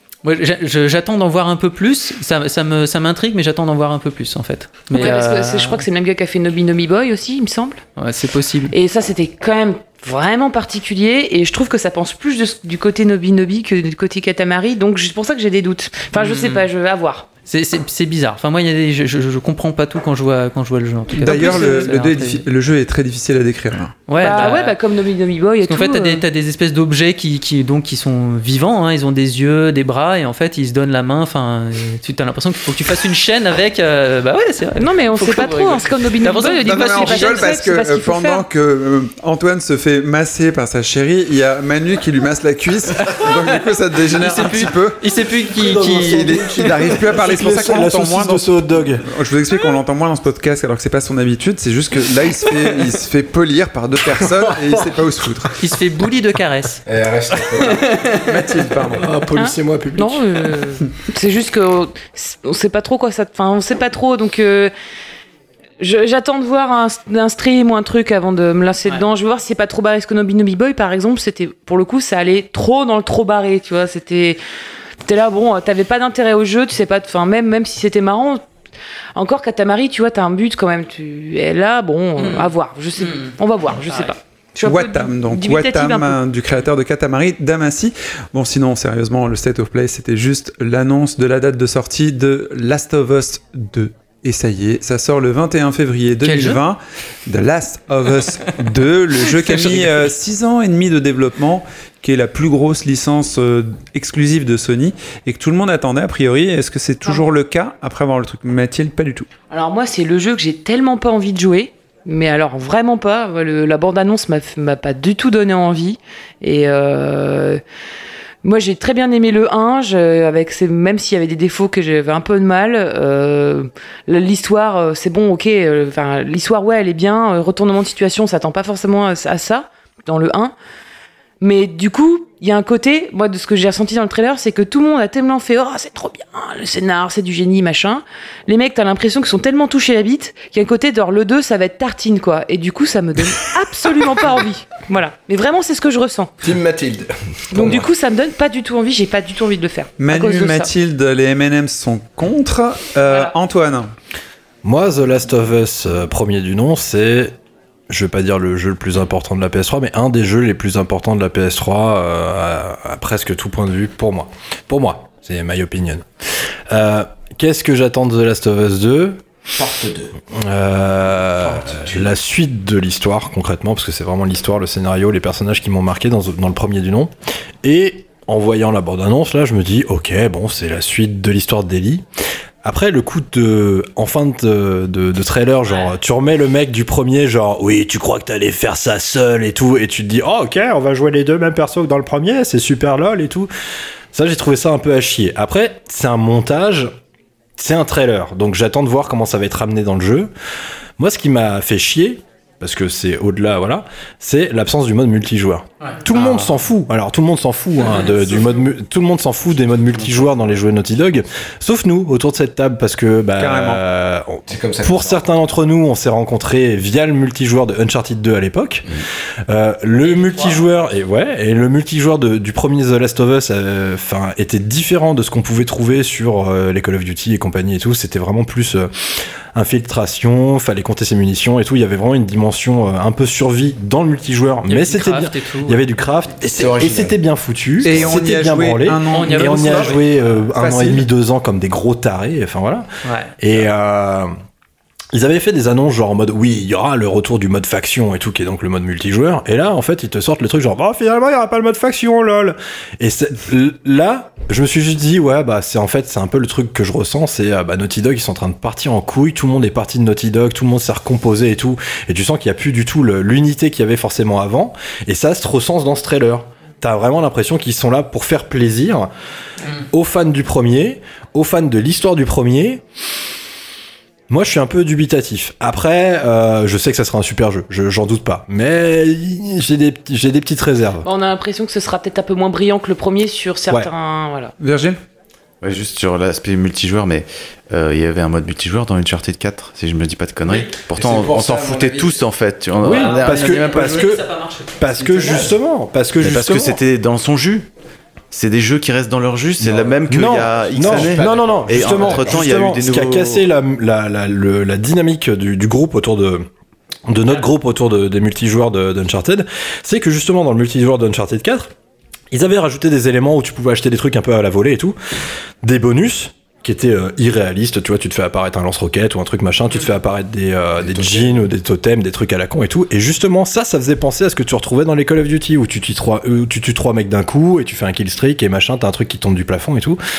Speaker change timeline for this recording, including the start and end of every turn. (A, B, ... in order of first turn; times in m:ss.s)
0:00.2-0:05.8 A
0:04.9-0:07.8 B
0:08.0-0:08.7 A
0:08.7-0:17.3 B
0:16.1-0:16.7 A
0:17.5-0:22.4 A
0:21.1-0:24.0 C
0:24.1-0:24.8 A
0:24.2-0:26.2 B
0:25.6-0:37.6 A
0:34.8-0:38.4 B
0:36.6-0:45.0 C
0:44.1-0:47.0 A
0:45.5-0:49.0 D
0:46.1-0:48.5 C
0:49.0-0:55.6 C
0:54.4-0:54.8 D
0:55.6-0:56.8 A
0:56.8-0:57.8 E
0:57.6-0:58.2 A
0:58.2-0:59.1 C
0:58.8-1:00.2 D
0:59.3-1:04.7 B
1:05.8-1:14.4 B
1:15.0-1:18.4 B
1:19.1-1:26.2 B
1:22.2-1:24.1 A
1:24.6-1:49.3 C
1:36.2-1:36.6 A
1:39.3-1:40.0 A
1:49.5-1:57.6 B
1:58.4-2:10.5 B
2:11.4-2:26.3 B
2:26.4-2:27.9 E
2:27.5-2:30.7 B
2:30.0-2:33.9 C
2:33.0-2:33.3 B
2:34.6-2:37.3 D
2:37.9-2:46.0 D
2:46.7-2:49.2 D
2:49.6-2:50.1 E
2:50.3-2:57.1 D
2:51.4-2:52.1 E
2:57.6-3:02.0 D
3:02.6-3:13.5 D
3:14.1-3:16.9 D
3:17.6-3:20.3 D
3:21.0-4:02.9 D
3:25.9-3:26.5 A
3:27.8-3:28.1 A
3:33.4-3:33.8 C
3:34.5-3:35.3 E
3:40.0-3:40.6 A
3:54.7-3:55.9 A
3:56.4-3:57.2 E
3:57.8-4:00.0 C
3:57.9-3:58.2 E
3:59.1-4:00.4 A
4:00.6-4:01.0 C
4:03.0-4:03.3 A
4:03.4-4:04.3 D
4:05.1-4:29.1 D
4:29.9-4:32.8 D
4:34.3-4:41.0 D
4:41.0-4:44.5 B
4:44.6-4:45.0 C
4:45.6-4:54.1 F
4:50.9-4:52.2 E
4:52.8-4:56.8 D
4:52.8-4:55.4 A
4:56.2-4:57.6 F
4:58.3-5:03.4 F
4:59.6-5:06.5 D
5:00.8-5:02.2 E
5:07.1-5:11.7 D
5:12.3-5:15.0 D
5:15.6-5:30.0 D
5:20.8-5:21.4 E